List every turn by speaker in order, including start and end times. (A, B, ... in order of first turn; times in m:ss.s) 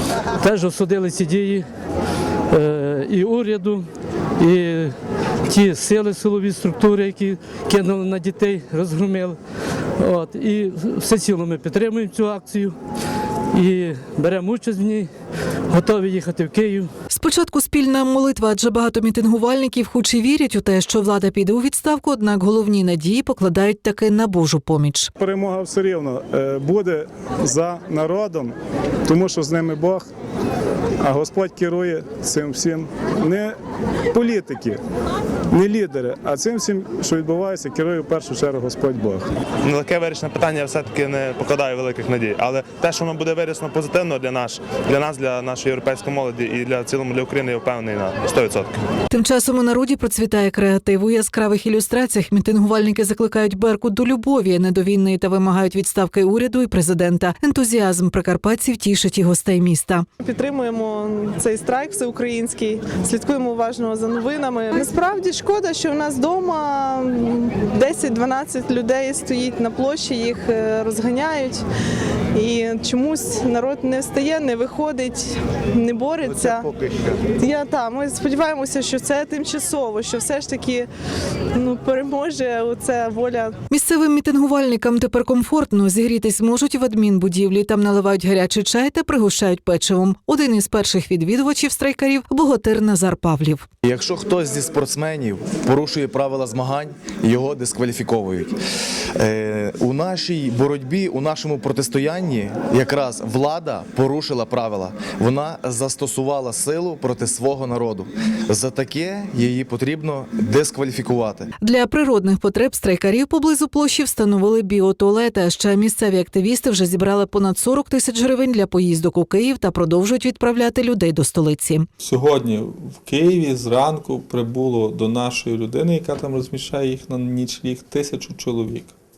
0:00.4-0:01.7 A
0:02.5-0:03.9 A
0:04.4-0:05.0 A
0:05.5-0:09.4 A
0:10.0-0:12.8 A
0:13.5-0:15.1 A
0:15.7-0:16.9 A
0:17.1-0:25.1 B
0:25.2-0:28.5 C
0:29.1-0:30.1 C
0:31.0-0:33.5 C
0:34.1-0:34.8 C
0:35.5-0:39.3 C
0:39.7-0:48.8 D
0:49.1-1:00.0 B
1:00.2-1:11.6 E
1:12.3-1:20.9 E
1:21.5-1:23.6 E
1:23.7-1:33.7 B
1:33.8-1:38.6 F
1:39.2-1:51.5 F
1:51.6-2:01.9 B
2:02.0-2:09.0 G